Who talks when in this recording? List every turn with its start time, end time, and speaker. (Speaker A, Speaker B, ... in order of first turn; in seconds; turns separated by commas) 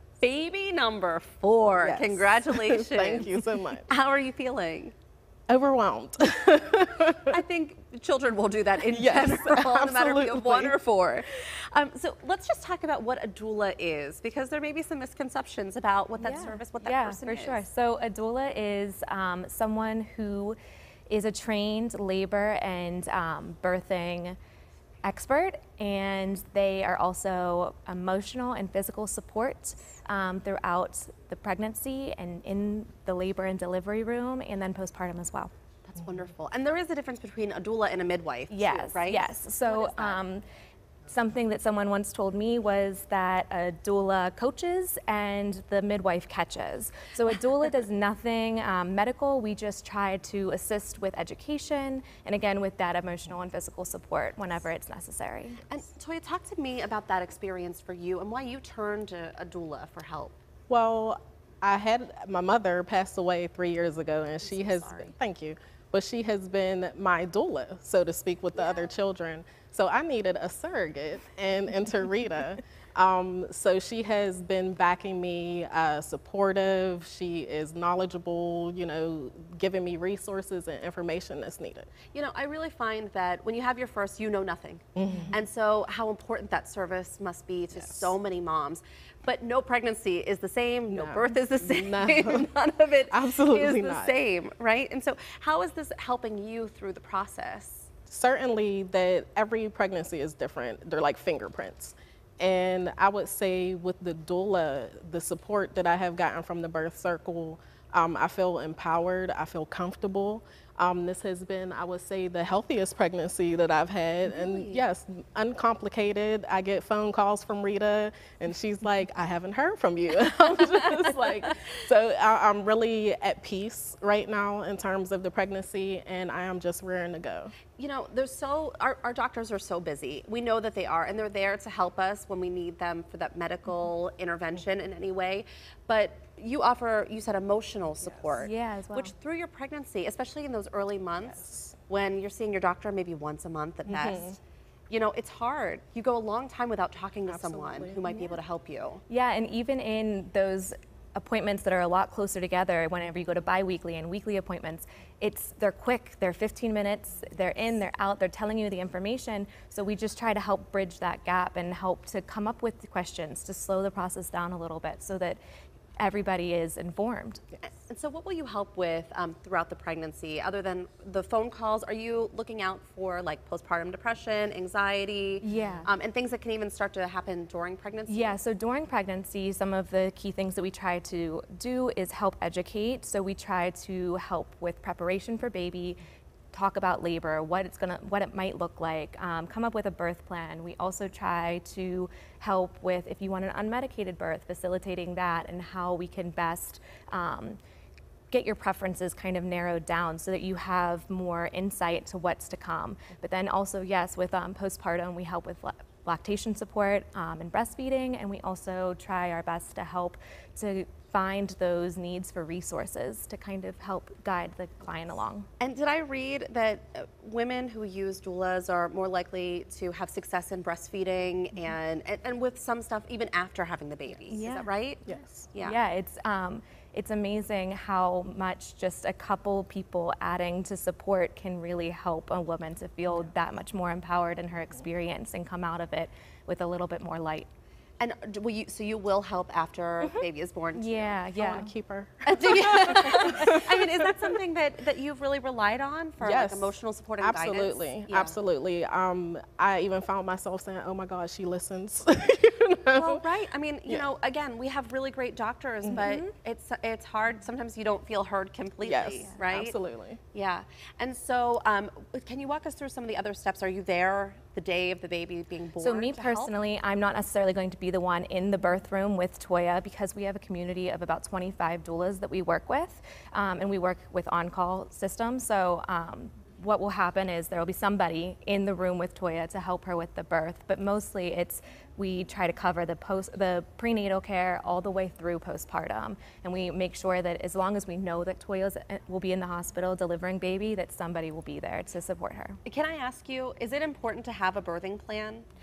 Speaker A: 0.2-4.9, Speaker B: 1.8-3.9, Speaker B: 5.5-7.4, Speaker A: 7.3-17.6, Speaker B: 8.9-10.8, Speaker C: 16.2-20.6, Speaker C: 21.1-24.4, Speaker C: 25.0-35.5, Speaker A: 35.9-40.2, Speaker C: 38.5-40.4, Speaker C: 41.1-55.6, Speaker A: 55.7-60.4, Speaker B: 60.7-81.9, Speaker A: 64.4-65.2, Speaker A: 68.6-68.9, Speaker A: 82.1-97.9, Speaker B: 85.0-85.3, Speaker B: 87.8-88.1, Speaker B: 90.9-92.5, Speaker B: 93.1-94.2, Speaker B: 98.1-127.5, Speaker A: 114.2-114.8, Speaker A: 127.8-144.3, Speaker C: 138.3-139.1, Speaker B: 141.2-141.8, Speaker B: 143.9-144.4, Speaker A: 144.9-149.0, Speaker B: 147.3-148.3, Speaker C: 149.1-165.4, Speaker C: 166.0-167.4, Speaker A: 167.8-178.4, Speaker C: 175.4-175.9, Speaker C: 178.1-186.0, Speaker C: 186.5-197.6, Speaker C: 198.3-215.5, Speaker A: 215.6-225.8, Speaker C: 224.3-224.7, Speaker B: 225.1-225.5, Speaker C: 225.6-237.5, Speaker A: 238.0-241.3, Speaker C: 240.7-241.7, Speaker B: 241.3-244.2, Speaker A: 242.2-248.4, Speaker C: 242.8-243.5, Speaker B: 246.2-253.2, Speaker A: 252.9-259.7, Speaker C: 255.9-256.3, Speaker B: 258.8-260.2, Speaker A: 260.3-266.5, Speaker C: 265.8-292.6, Speaker A: 292.6-295.4